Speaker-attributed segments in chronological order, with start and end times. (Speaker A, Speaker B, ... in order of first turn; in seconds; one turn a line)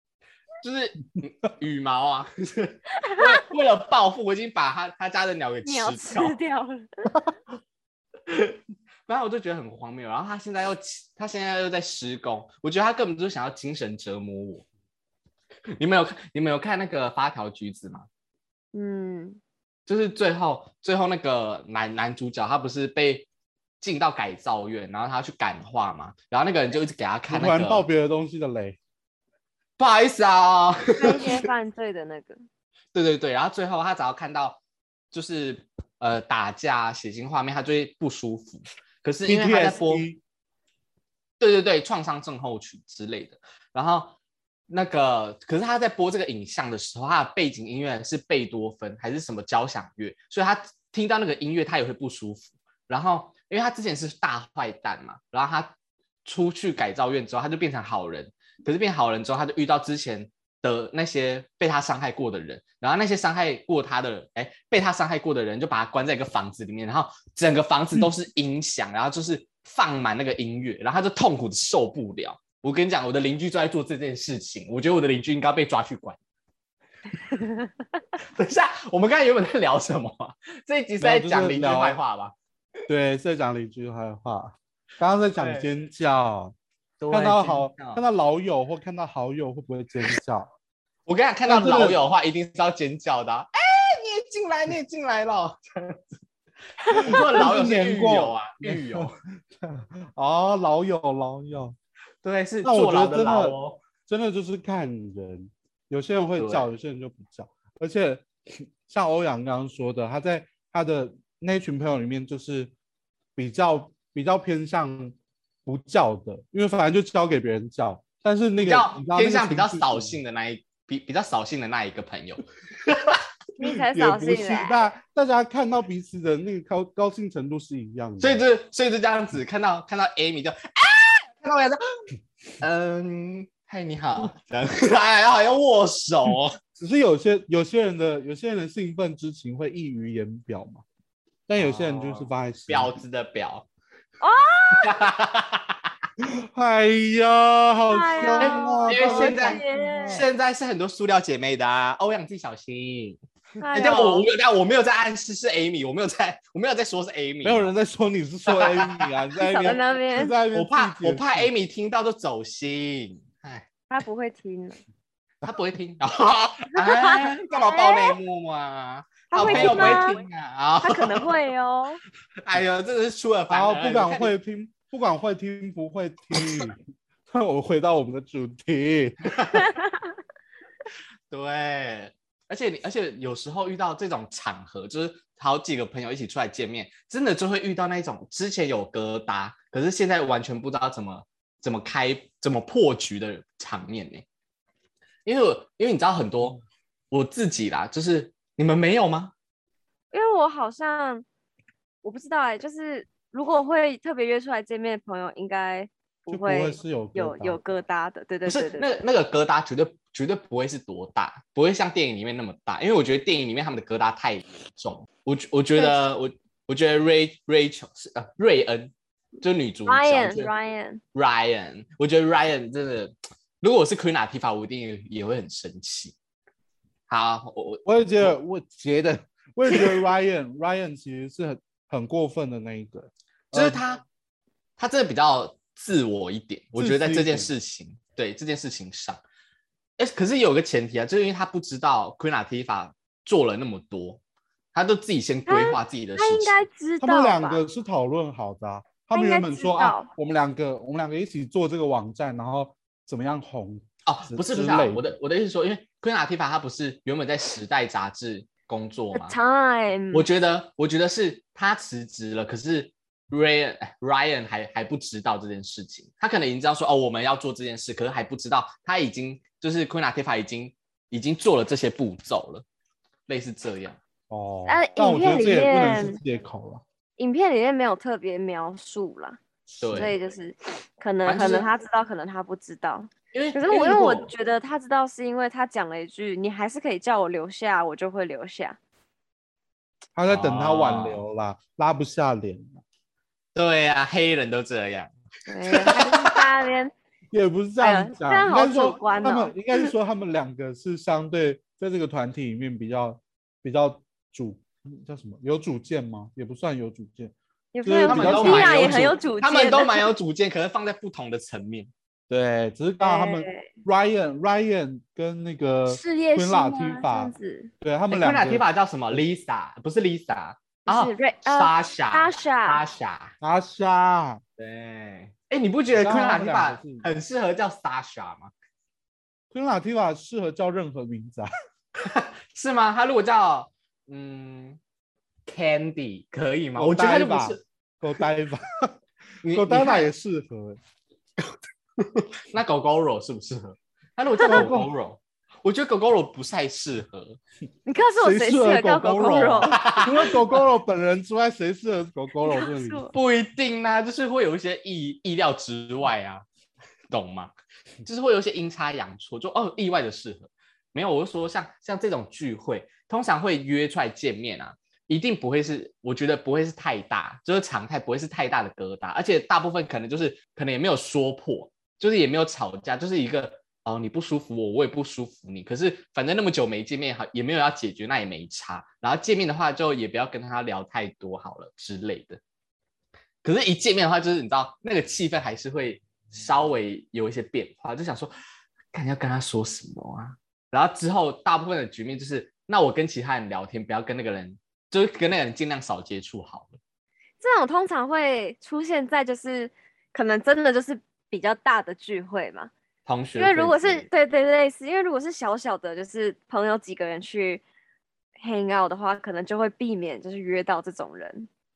Speaker A: 0.6-6.4
Speaker B: 3.0-3.4
Speaker B: 5.6-7.1
Speaker A: 8.3-14.7
Speaker A: 15.8-18.1
Speaker B: 18.7-19.4
Speaker A: 19.9-23.3
Speaker A: 23.8-27.9
Speaker C: 27.3-28.8
Speaker A: 29.8-31.4
Speaker B: 31.0-32.4
Speaker A: 32.9-34.6
Speaker A: 35.1-40.0
Speaker C: 39.3-40.2
Speaker A: 41.4-44.1
Speaker A: 44.7-55.7
Speaker A: 56.2-76.2
Speaker B: 77.4-77.7
Speaker A: 78.3-82.3
Speaker C: 81.0-82.0
Speaker C: 82.9-86.5
Speaker A: 85.4-85.7
Speaker A: 87.0-88.0
Speaker C: 87.1-90.5
Speaker A: 91.1-96.1
Speaker C: 91.5-92.0
Speaker A: 96.9-99.1
Speaker C: 97.0-101.8
Speaker A: 102.2-103.8
Speaker C: 102.6-112.7
Speaker A: 106.4-106.7
Speaker C: 113.4-120.2
Speaker A: 118.6-123.2
Speaker B: 123.6-124.8
Speaker C: 123.6-128.4
Speaker A: 128.2-131.8
Speaker A: 132.6-136.6
Speaker C: 136.8-140.8
Speaker C: 141.5-143.0
Speaker A: 141.6-143.7
Speaker B: 144.2-145.0
Speaker A: 144.7-145.8
Speaker C: 146.2-150.3
Speaker B: 147.9-150.3
Speaker A: 148.4-153.2
Speaker B: 153.6-154.3
Speaker A: 153.7-157.7
Speaker C: 157.4-161.5
Speaker A: 158.5-159.1
Speaker B: 159.4-160.3
Speaker A: 160.5-163.7
Speaker B: 163.9-164.8
Speaker A: 165.4-171.3
Speaker B: 166.8-168.2
Speaker B: 169.3-170.2
Speaker C: 169.4-170.1
Speaker B: 170.8-172.0
Speaker A: 172.4-174.3
Speaker C: 173.5-179.2
Speaker A: 179.3-179.7
Speaker A: 181.3-194.2
Speaker A: 195.3-196.6
Speaker A: 197.1-199.3
Speaker B: 200.1-201.2
Speaker B: 202.0-209.0
Speaker C: 206.3-207.6
Speaker A: 208.5-220.5
Speaker B: 219.9-221.0
Speaker A: 221.1-226.2
Speaker A: 227.1-228.3
Speaker C: 227.8-233.8
Speaker A: 233.5-234.0
Speaker A: 234.8-239.2
Speaker C: 236.8-237.5
Speaker A: 240.0-244.2
Speaker A: 244.7-246.6
Speaker B: 245.5-247.6
Speaker C: 247.0-255.1
Speaker B: 249.1-250.1
Speaker A: 254.1-259.4
Speaker B: 259.1-260.3
Speaker A: 260.1-272.6
Speaker A: 273.3-274.0
Speaker C: 274.3-276.8
Speaker B: 274.7-276.2
Speaker B: 277.2-279.4
Speaker A: 279.8-280.1
Speaker C: 279.8-280.1
Speaker B: 279.9-288.8
Speaker A: 281.2-281.7
Speaker A: 283.3-284.3
Speaker C: 290.1-292.8
Speaker A: 290.3-291.2
Speaker A: 293.6-295.1
Speaker B: 295.5-296.9
Speaker A: 295.6-296.4
Speaker C: 297.3-309.1
Speaker B: 297.8-299.6
Speaker B: 307.7-310.1
Speaker A: 308.1-311.9
Speaker C: 312.3-319.2
Speaker B: 313.0-313.6
Speaker B: 315.9-317.7
Speaker A: 318.1-323.3
Speaker B: 320.9-322.8
Speaker C: 323.4-324.4
Speaker A: 324.6-328.5
Speaker C: 325.9-327.1
Speaker C: 329.5-331.5
Speaker A: 332.0-334.8
Speaker A: 335.5-337.6
Speaker C: 336.8-338.9
Speaker A: 339.4-340.1
Speaker C: 339.5-340.8
Speaker A: 342.0-347.4
Speaker C: 344.4-344.9
Speaker B: 347.9-349.7
Speaker C: 348.2-353.0
Speaker A: 349.3-350.4
Speaker B: 352.4-353.1
Speaker A: 353.1-356.5
Speaker A: 357.1-357.5
Speaker A: 358.1-382.4
Speaker A: 383.4-388.3
Speaker A: 388.9-396.8
Speaker B: 397.4-402.7
Speaker A: 403.1-404.1
Speaker B: 403.4-407.6
Speaker B: 408.4-411.5